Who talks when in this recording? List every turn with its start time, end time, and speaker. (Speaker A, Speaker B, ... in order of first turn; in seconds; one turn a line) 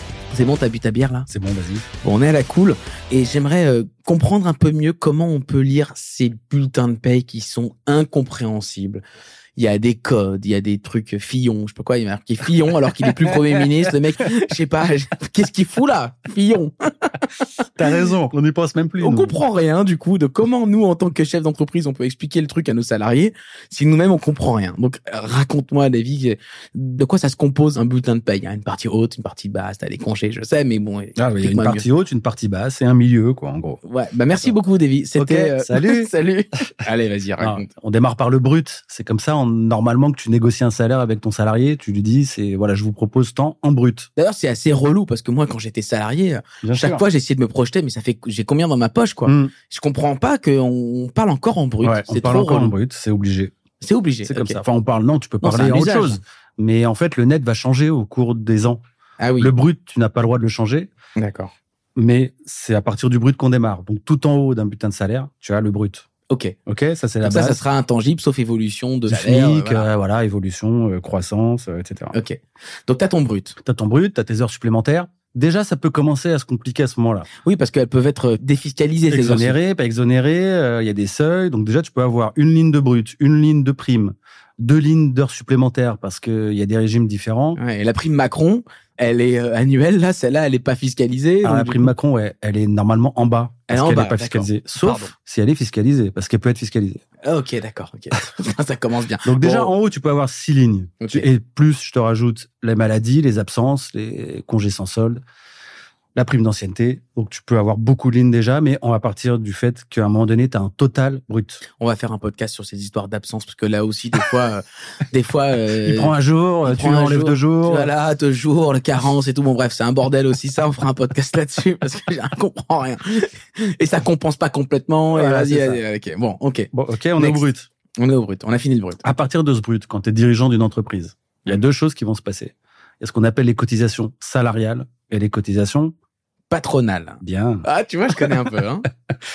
Speaker A: 0.3-1.3
Speaker B: 1.3-1.9
Speaker A: 2.0-9.0
Speaker A: 9.6-17.5
Speaker B: 17.8-19.3
Speaker A: 19.0-31.9
Speaker B: 31.2-33.8
Speaker A: 33.8-37.6
Speaker B: 35.2-36.1
Speaker B: 37.4-44.1
Speaker A: 44.2-52.7
Speaker B: 46.6-47.0
Speaker B: 49.2-49.5
Speaker B: 51.8-53.5
Speaker A: 53.8-54.6
Speaker B: 54.2-58.8
Speaker A: 55.4-56.2
Speaker A: 59.2-59.5
Speaker B: 59.4-60.9
Speaker A: 61.2-61.5
Speaker B: 62.0-66.0
Speaker A: 66.3-66.5
Speaker B: 66.7-67.6
Speaker A: 67.2-69.9
Speaker B: 69.1-72.1
Speaker A: 72.1-73.5
Speaker B: 73.6-77.3
Speaker A: 77.4-79.6
Speaker B: 79.1-87.6
Speaker A: 87.6-91.9
Speaker B: 91.4-97.0
Speaker A: 93.7-95.1
Speaker A: 97.2-99.7
Speaker B: 99.2-105.2
Speaker A: 101.0-101.3
Speaker B: 106.1-111.6
Speaker A: 111.8-116.1
Speaker B: 115.8-117.9
Speaker A: 116.6-127.5
Speaker B: 125.1-125.8
Speaker B: 126.7-127.7
Speaker A: 128.0-129.1
Speaker B: 129.0-135.9
Speaker A: 136.5-138.9
Speaker B: 137.2-137.7